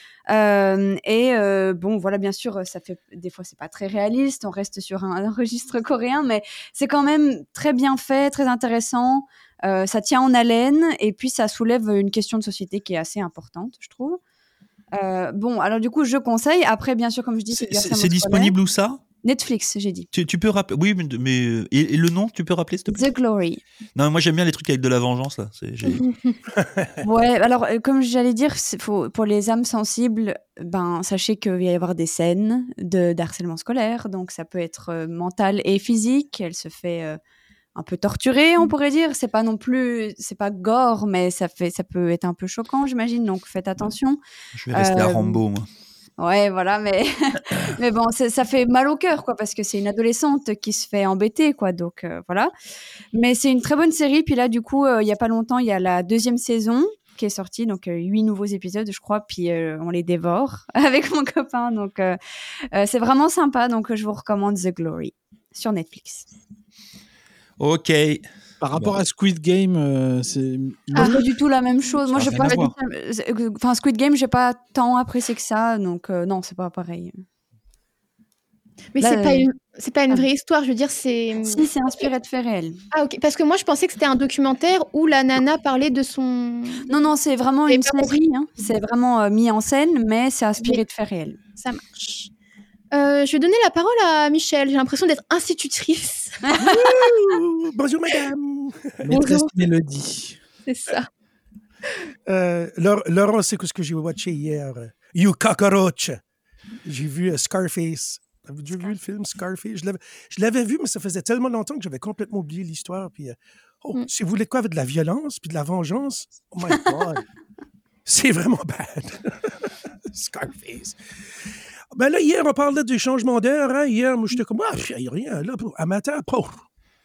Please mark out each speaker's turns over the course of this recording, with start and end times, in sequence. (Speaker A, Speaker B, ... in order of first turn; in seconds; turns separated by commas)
Speaker A: 0.3-14.2, Speaker A: 14.9-18.5, Speaker B: 17.5-19.0, Speaker A: 19.2-20.1, Speaker B: 20.1-23.1, Speaker A: 22.9-23.6, Speaker B: 23.9-26.0, Speaker C: 25.9-26.4, Speaker D: 26.6-27.0, Speaker A: 27.0-37.2, Speaker A: 37.7-44.2, Speaker B: 44.5-45.7, Speaker A: 44.7-45.4, Speaker A: 46.2-52.5, Speaker A: 53.1-62.2, Speaker A: 62.7-66.3, Speaker B: 67.6-69.0, Speaker E: 68.6-71.2, Speaker C: 70.9-71.2, Speaker A: 70.9-77.2, Speaker B: 72.1-72.7, Speaker E: 72.2-72.6, Speaker C: 78.9-81.7, Speaker A: 79.0-79.5, Speaker A: 81.4-82.8, Speaker C: 82.9-86.9, Speaker A: 86.8-91.4, Speaker C: 87.7-88.2, Speaker C: 91.6-92.3, Speaker C: 92.9-96.4, Speaker A: 96.4-97.1, Speaker D: 96.6-99.0, Speaker E: 99.0-100.4, Speaker C: 99.1-99.5, Speaker C: 100.7-101.1, Speaker D: 102.3-106.2, Speaker D: 106.8-117.2, Speaker D: 118.0-121.0, Speaker D: 121.9-126.6